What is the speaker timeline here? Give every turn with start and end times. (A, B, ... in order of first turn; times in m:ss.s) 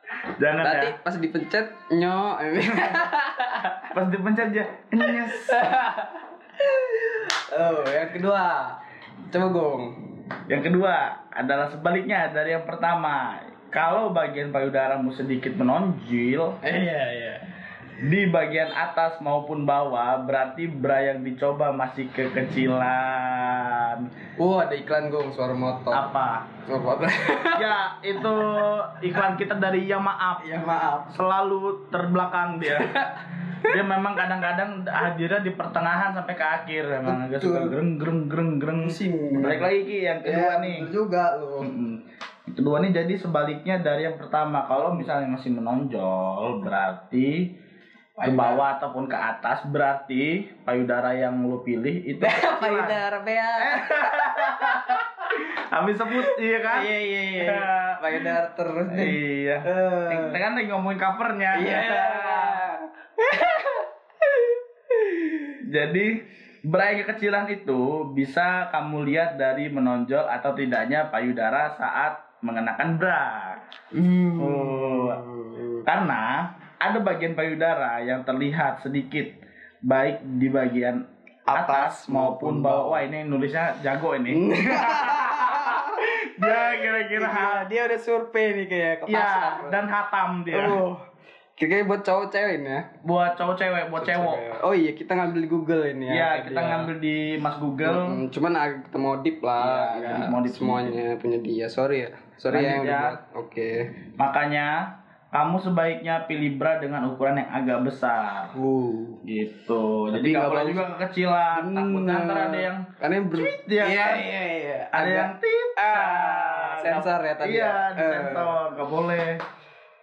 0:00.4-0:00.9 A
0:00.6-0:03.8 B
0:03.9-0:05.6 A
0:05.1-0:08.8 B
0:09.3-0:09.9 B
0:10.5-0:16.6 A
0:16.6-0:17.4 B
0:18.0-0:24.1 A
0:24.4-0:26.0 B
0:25.9-0:26.5 A
0:26.7-0:27.6 B
0:27.6-0:30.4 A
0:30.4-0:31.2 B
0:31.1-0:32.9 A
0:32.6-0:33.7 B
0:33.6-0:40.9 A
0:37.0-0:37.7 B
0:38.8-0:39.7 B
0:40.2-0:41.7 B
0:41.6-0:47.5 A
0:48.2-0:48.6 B
0:48.2-0:53.0 A
0:52.2-0:55.1 B
0:53.6-0:58.3 A
0:56.3-1:00.4 B
0:58.9-1:02.6 A
1:01.5-1:05.5 B
1:05.7-1:13.6 A
1:13.9-1:15.8 B
1:14.4-1:15.2 A
1:15.8-1:19.4 A
1:19.9-1:27.7 A
1:21.5-1:23.0 B
1:24.3-1:29.8 B
1:29.1-1:30.8 A
1:30.5-1:31.0 B
1:31.6-1:32.8 B
1:33.0-1:34.4 A
1:34.0-1:36.9 B
1:36.1-1:38.2 A
1:37.8-1:43.8 B
1:39.6-1:41.0 A
1:42.5-1:43.2 A
1:44.2-1:48.5 A
1:48.5-1:49.2 B
1:49.2-1:52.8 A
1:50.1-1:50.8 B
1:51.5-1:58.6 B
1:53.3-1:54.2 A
1:54.9-1:59.4 A